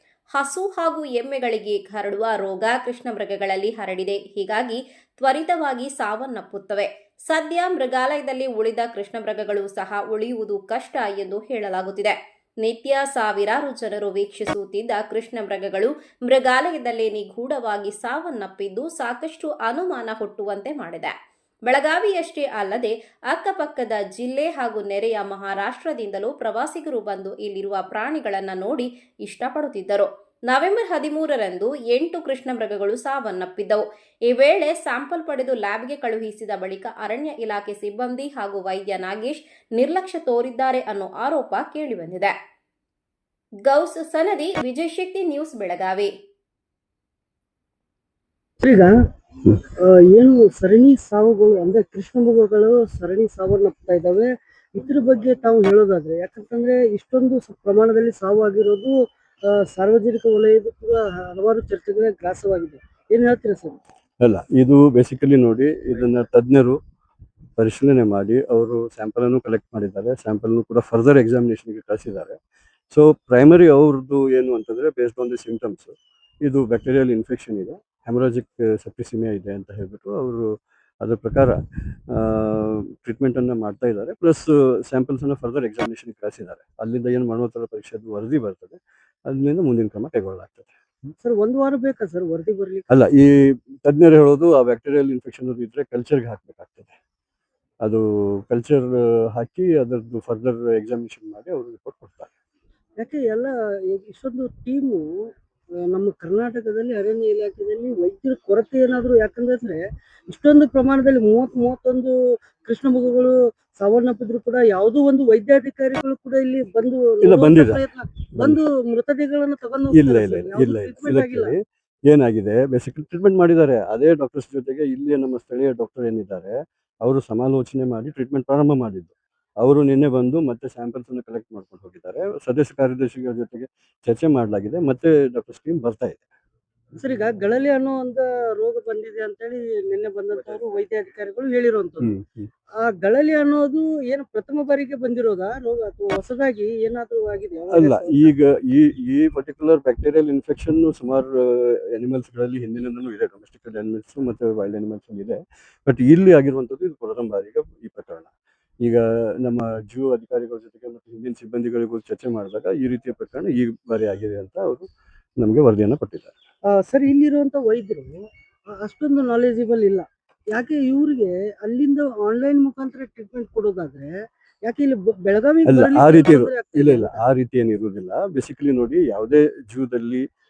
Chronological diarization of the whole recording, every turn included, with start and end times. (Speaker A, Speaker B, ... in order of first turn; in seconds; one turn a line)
Speaker A: 0.3-21.1
Speaker A: 21.7-42.3
Speaker A: 43.7-46.1
Speaker B: 48.6-48.9
Speaker B: 49.5-58.9
Speaker B: 59.5-63.8
Speaker C: 64.3-66.7
Speaker C: 67.6-72.3
Speaker C: 73.0-75.9
Speaker C: 76.5-80.4
Speaker C: 81.1-81.5
Speaker C: 82.2-88.8
Speaker C: 89.4-90.7
Speaker B: 91.2-92.9
Speaker C: 93.9-96.9
Speaker C: 97.9-98.9
Speaker C: 99.4-102.2
Speaker B: 103.0-105.0
Speaker B: 105.9-112.1
Speaker B: 112.6-121.5
Speaker C: 122.1-126.5
Speaker C: 127.1-136.2
Speaker B: 137.0-142.1
Speaker B: 142.8-148.3
Speaker C: 148.7-151.3
Speaker C: 152.0-158.3
Speaker C: 158.9-164.9
Speaker C: 165.4-166.3
Speaker B: 166.7-177.2
Speaker C: 177.3-180.2